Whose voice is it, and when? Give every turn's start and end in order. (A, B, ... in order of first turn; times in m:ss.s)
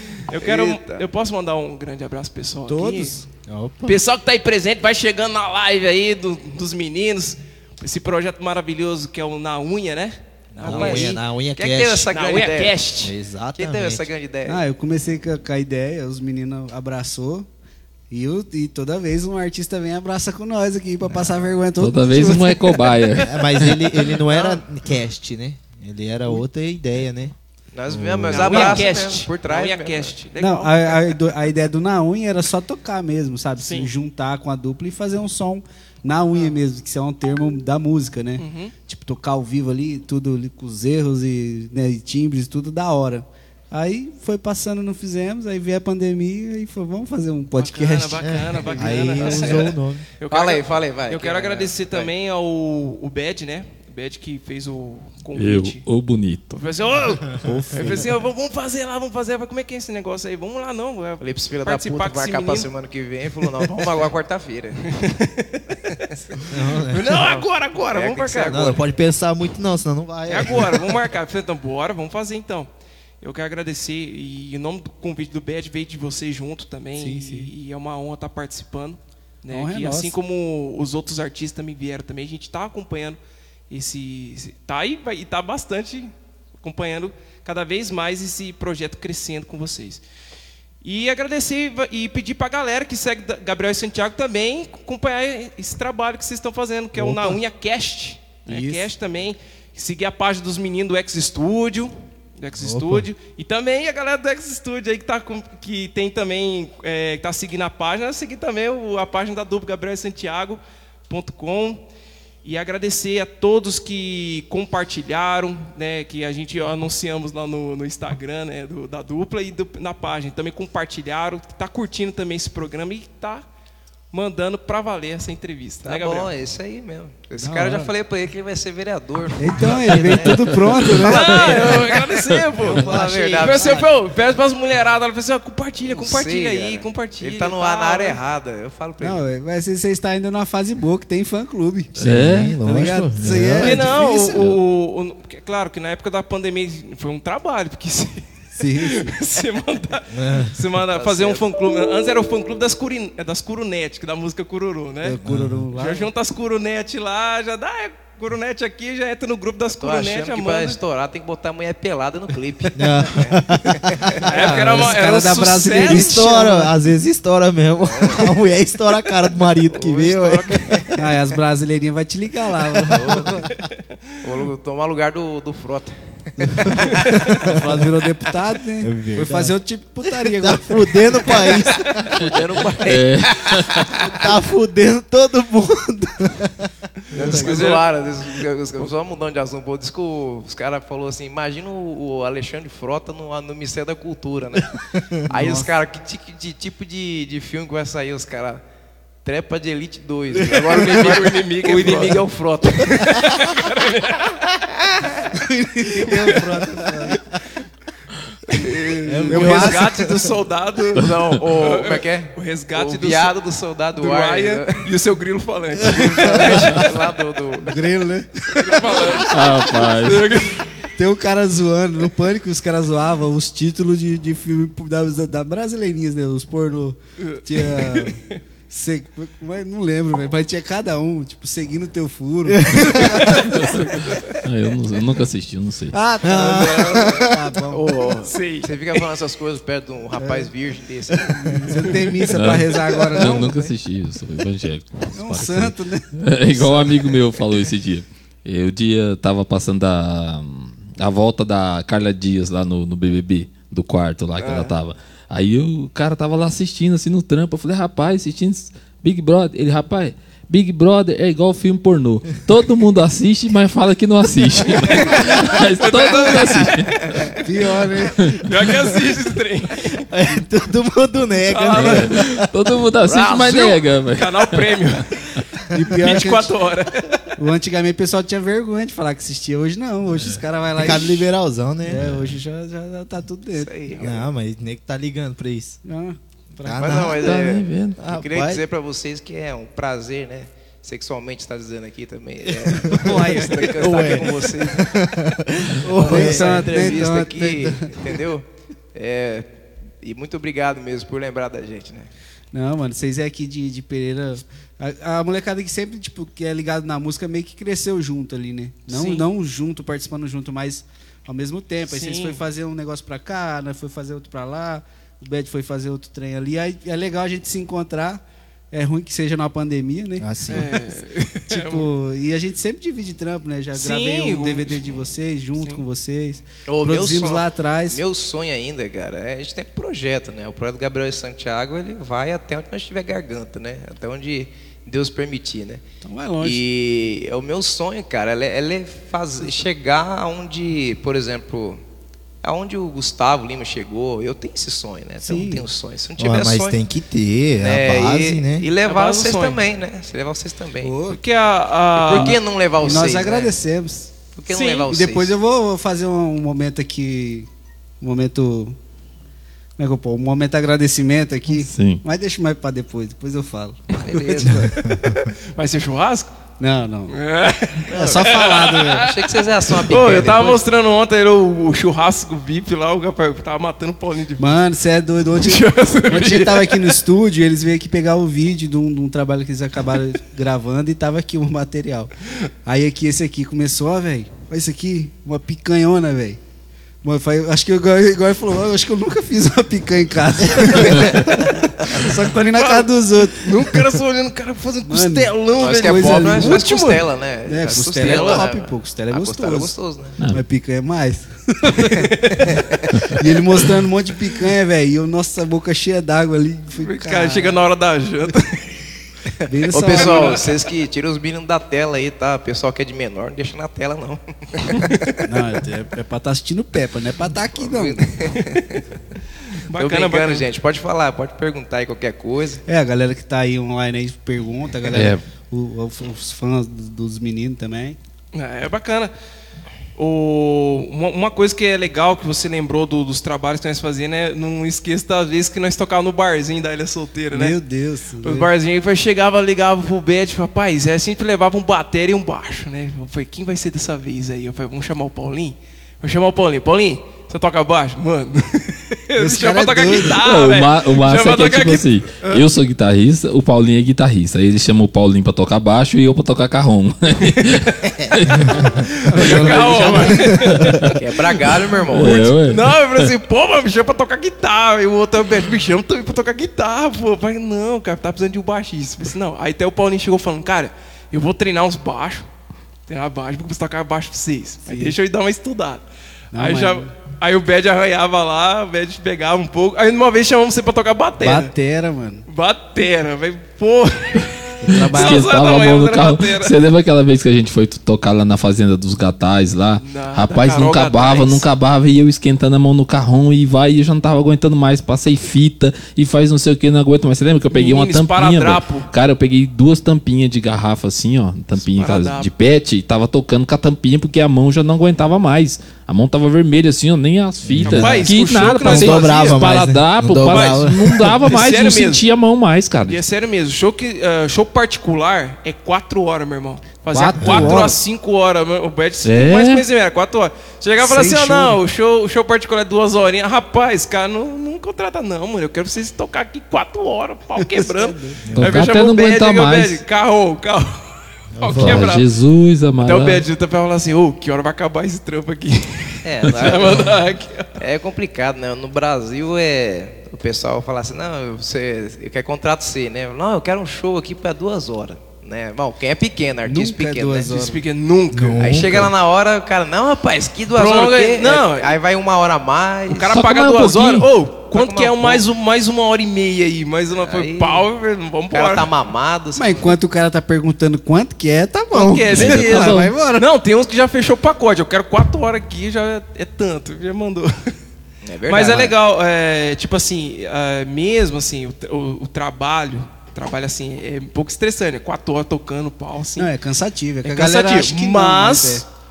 0:00.3-0:03.2 A
0:00.3-0:01.0 B
0:02.7-0:03.3 C
0:03.5-0:04.0 D
0:03.9-0:11.2 A
0:10.6-0:12.8 B
0:10.6-0:12.1 D
0:12.1-0:13.1 A
0:13.0-0:14.1 D
0:13.6-0:14.6 B
0:14.5-0:17.5 C
0:18.1-0:22.9 C
0:21.8-0:23.9 E
0:23.2-0:27.3 D
0:24.3-0:24.6 B
0:27.7-0:30.1 B
0:27.9-0:28.8 D
0:28.3-0:31.2 A
0:30.4-0:49.2 C
0:33.6-0:33.9 A
0:38.4-0:38.7 A
0:47.6-0:55.8 A
0:48.2-0:50.0 D
0:49.3-0:49.6 B
0:50.3-0:52.1 B
0:55.4-0:56.6 E
0:56.5-1:02.7 A
0:57.4-0:58.0 D
1:01.2-1:04.9 B
1:03.4-1:04.0 A
1:04.9-1:05.8 A
1:05.9-1:06.4 B
1:06.3-1:08.8 A
1:06.5-1:07.1 D
1:07.0-1:08.8 B
1:08.5-1:10.9 D
1:10.3-1:12.7 A
1:13.2-1:23.2 A
1:17.0-1:17.5 C
1:19.5-1:20.2 C
1:23.7-1:30.0 A
1:30.8-1:51.8 A
1:37.0-1:37.3 C
1:38.5-1:38.9 C
1:42.6-1:43.1 D
1:52.4-2:03.4 A
2:04.1-2:06.3 A
2:05.8-2:13.8 B
2:07.4-2:07.9 C
2:09.4-2:11.5 C
2:10.1-2:10.8 E
2:11.0-2:18.2 A
2:12.7-2:13.8 D
2:12.9-2:13.2 C
2:15.9-2:19.2 B
2:19.0-2:24.5 C
2:22.0-2:22.6 E
2:22.0-2:23.9 D
2:23.6-2:28.2 A
2:24.2-2:24.6 E
2:28.6-2:29.2 C
2:28.8-2:35.2 A
2:30.1-2:30.6 D
2:30.9-2:31.4 B
2:35.0-2:36.1 C
2:35.2-2:35.6 D
2:35.8-2:40.8 A
2:39.8-2:44.3 B
2:42.8-2:44.3 D
2:44.2-2:46.2 A
2:44.3-2:46.7 C
2:45.8-2:50.8 D
2:47.8-2:48.4 B
2:49.4-2:51.0 B
2:51.0-2:53.4 C
2:52.9-2:53.6 B
2:52.9-2:53.5 D
2:54.2-2:57.5 B
2:56.4-3:01.4 C
2:57.4-2:57.7 D
2:58.8-2:59.6 D
3:00.1-3:02.4 D
3:01.3-3:04.2 B
3:02.8-3:03.9 E
3:04.0-3:06.7 D
3:07.1-3:07.7 C
3:07.1-3:07.8 A
3:07.2-3:18.6 B
3:15.3-3:15.7 C
3:19.2-3:23.4 B
3:20.4-3:22.2 A
3:22.8-3:24.5 A
3:24.9-3:25.2 B
3:25.3-3:27.2 C
3:26.1-3:26.5 A
3:28.5-3:33.4 A
3:28.6-3:30.0 C
3:29.1-3:30.3 D
3:31.0-3:34.9 B
3:34.0-3:37.2 A
3:36.0-3:37.8 B
3:36.2-3:36.6 C
3:37.6-3:39.2 C
3:38.5-3:40.6 A
3:39.2-3:40.3 E
3:41.0-3:53.5 C
3:47.2-3:48.4 A
3:52.5-3:53.5 D
3:53.0-3:54.4 A
3:53.5-3:53.8 E
3:54.4-3:56.0 E
3:55.9-3:58.1 C
3:56.2-3:57.4 D
3:56.4-3:57.2 A
3:57.7-4:02.0 B
3:58.2-3:59.1 A
4:00.2-4:00.5 C
4:01.1-4:01.4 D
4:01.3-4:03.7 C
4:02.3-4:27.0 E
4:05.1-4:06.9 C
4:14.4-4:14.8 A
4:24.6-4:27.3 A
4:26.6-4:27.2 B
4:27.4-4:28.5 C
4:28.3-4:30.1 A
4:30.1-4:32.5 D
4:31.5-4:32.3 A
4:31.7-4:34.7 E
4:33.0-4:33.8 B
4:34.2-4:35.4 A
4:35.7-4:36.6 C
4:35.9-4:37.3 A
4:37.4-4:41.3 C
4:40.8-4:42.1 D
4:41.8-4:44.0 C
4:43.6-4:44.2 B
4:44.0-4:45.8 D
4:45.8-4:47.0 C
4:46.6-4:48.6 D
4:46.7-4:55.0 B
4:47.0-4:48.0 E
4:52.6-4:57.1 D
4:52.8-4:54.3 C
4:55.9-4:58.1 C
4:55.9-4:59.5 B
5:00.0-5:02.1 B
5:02.5-5:20.8 C
5:08.9-5:09.3 A
5:11.9-5:12.4 A
5:20.2-5:20.8 D
5:20.5-5:21.9 A
5:21.5-5:28.0 C
5:23.8-5:25.0 A
5:26.7-5:35.8 B
5:36.0-5:36.6 C
5:36.4-5:41.8 B
5:42.4-5:46.8 B
5:45.2-5:45.7 C
5:46.2-5:48.7 D
5:47.6-5:51.0 B
5:48.8-5:49.6 A
5:50.8-5:51.2 C
5:51.1-5:52.4 A
5:52.0-5:53.5 B
5:52.8-5:54.2 C
5:54.4-5:55.3 B
5:54.5-5:54.9 A
5:54.9-5:57.5 C
5:58.0-5:58.8 C
5:59.8-6:04.9 C
6:01.5-6:02.0 E
6:04.0-6:04.8 B
6:04.8-6:05.2 D
6:04.9-6:06.3 A
6:06.6-6:07.2 C
6:07.1-6:14.5 A
6:07.9-6:09.1 C
6:07.9-6:10.6 B
6:14.4-6:22.1 C
6:15.4-6:17.0 A
6:22.6-6:26.4 C
6:27.0-6:33.8 C
6:30.7-6:32.1 B
6:32.5-6:37.0 A
6:34.8-6:36.7 C
6:35.5-6:40.2 B
6:37.5-6:39.7 C
6:38.0-6:38.5 A
6:40.3-6:42.5 C
6:42.0-6:43.0 B
6:42.2-6:42.6 A
6:43.1-6:47.6 C
6:46.8-6:48.7 A
6:49.5-6:50.5 C
6:49.7-6:55.2 B
6:49.8-6:50.6 A
6:55.2-6:58.3 C
6:57.6-6:58.8 B
6:59.7-7:00.5 A
6:59.7-7:02.6 B
7:02.7-7:08.0 C
7:04.9-7:05.2 E
7:08.3-7:09.1 A
7:10.0-7:17.6 A
7:17.3-7:18.5 C
7:18.2-7:32.4 A
7:29.2-7:30.2 C
7:30.2-7:38.8 E
7:37.2-7:37.8 A
7:38.5-7:52.2 A
7:39.0-7:40.9 C
7:39.3-7:40.2 B
7:40.6-7:41.0 E
7:41.0-7:42.3 B
7:41.9-7:43.1 E
7:52.9-7:55.8 A
7:54.7-7:55.0 C
7:56.3-7:56.9 C
7:56.4-8:01.5 A
8:01.2-8:02.3 C
8:02.3-8:06.6 A
8:04.6-8:05.2 C
8:04.7-8:33.0 E
8:09.8-8:11.4 A
8:17.5-8:18.9 A
8:21.6-8:22.3 A
8:27.4-8:31.2 D
8:27.6-8:29.6 A
8:30.2-8:32.0 A
8:32.8-8:50.8 A
8:36.9-8:37.8 C
8:37.2-8:37.5 D
8:37.2-8:37.6 E
8:39.0-8:39.6 E
8:40.8-8:41.6 C
8:47.4-8:48.2 C
8:48.2-8:48.6 D
8:48.3-8:49.8 E
8:51.4-8:51.9 D
8:51.4-8:52.1 A
8:51.5-8:53.2 E
8:52.8-8:57.6 A
8:56.0-8:57.0 B
8:57.6-9:07.4 B
9:06.4-9:07.6 C
9:07.3-9:08.7 A
9:08.1-9:08.9 D
9:08.4-9:13.2 B
9:10.5-9:11.8 A
9:12.9-9:18.7 A
9:13.1-9:14.1 E
9:14.5-9:15.2 B
9:17.0-9:17.7 B
9:18.3-9:19.8 B
9:19.4-9:23.3 C
9:21.7-9:27.6 A
9:22.1-9:23.0 E
9:28.0-9:28.8 B
9:28.3-9:36.3 A
9:36.2-9:38.6 C
9:37.0-9:38.7 A